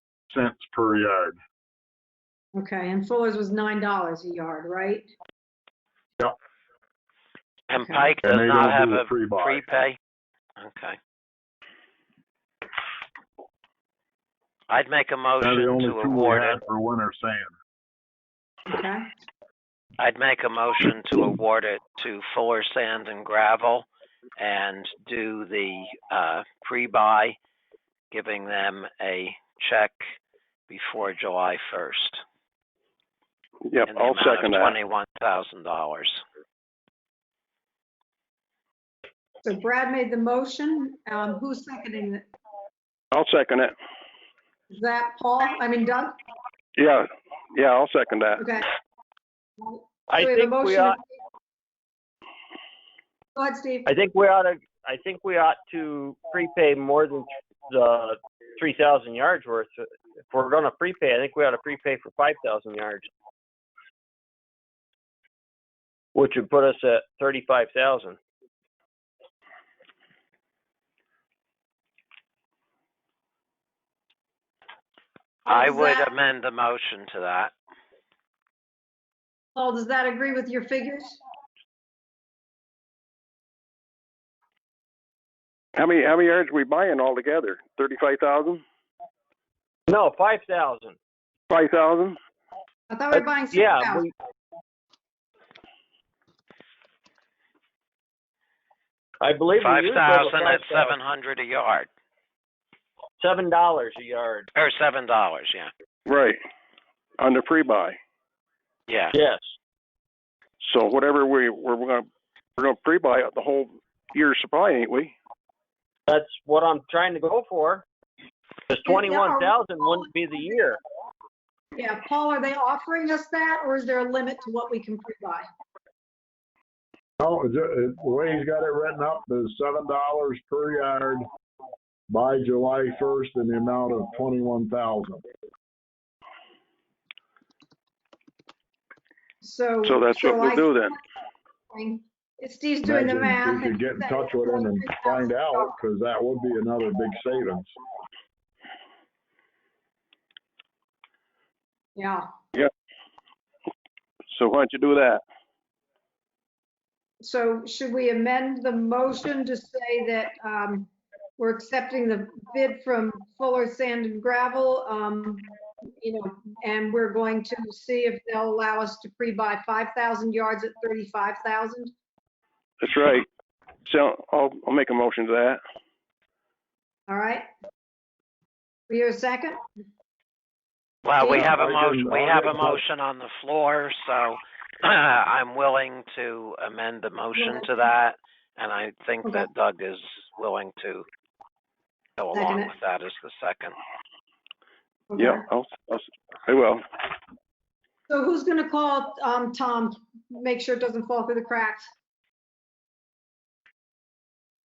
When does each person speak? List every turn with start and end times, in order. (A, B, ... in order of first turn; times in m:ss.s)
0:00.3-0:01.4 A
0:02.6-0:05.1 B
0:07.7-0:10.0 C
0:08.2-0:09.6 A
0:10.6-0:11.0 C
0:14.7-0:16.6 C
0:15.4-0:17.5 A
0:18.7-0:19.1 B
0:20.0-0:23.9 C
0:24.4-0:27.4 C
0:28.1-0:30.0 C
0:30.7-0:32.2 C
0:33.7-0:34.8 D
0:33.8-0:36.2 C
0:39.4-0:42.2 B
0:43.1-0:43.8 D
0:44.7-0:46.1 B
0:46.8-0:48.5 D
0:48.4-0:48.7 B
0:49.6-0:51.0 B
0:50.1-0:51.0 E
0:53.4-0:53.9 B
0:53.9-1:03.1 E
1:06.2-1:08.2 E
1:15.5-1:16.1 B
1:15.5-1:17.5 C
1:19.6-1:21.2 B
1:25.8-1:28.6 D
1:29.9-1:31.0 E
1:31.5-1:32.2 D
1:32.9-1:34.0 B
1:33.1-1:34.1 E
1:39.2-1:40.9 E
1:39.6-1:41.9 C
1:43.2-1:44.5 E
1:44.6-1:45.7 C
1:46.1-1:46.4 D
1:47.2-1:48.0 D
1:48.9-1:49.2 C
1:49.1-1:49.6 E
1:50.6-1:52.1 D
1:52.6-1:55.2 D
1:56.1-1:57.9 E
1:58.7-2:00.8 E
1:58.8-2:00.1 B
2:01.8-2:05.5 B
2:07.2-2:11.2 A
2:12.1-2:15.2 A
2:19.4-2:21.0 B
2:19.8-2:21.0 D
2:21.7-2:25.8 B
2:22.8-2:27.7 A
2:32.0-2:32.2 B
2:34.3-2:35.2 D
2:37.2-2:45.5 B
2:46.0-2:51.9 B
2:52.8-2:53.3 D
2:53.9-2:55.6 D
2:57.1-2:57.4 B
2:58.9-2:59.6 B
3:01.0-3:11.1 C
3:01.2-3:01.5 B
3:01.3-3:02.8 A
3:07.4-3:07.7 B
3:12.2-3:13.8 C
3:12.3-3:12.7 B
3:15.1-3:15.4 B
3:15.2-3:16.8 D
3:18.1-3:21.9 B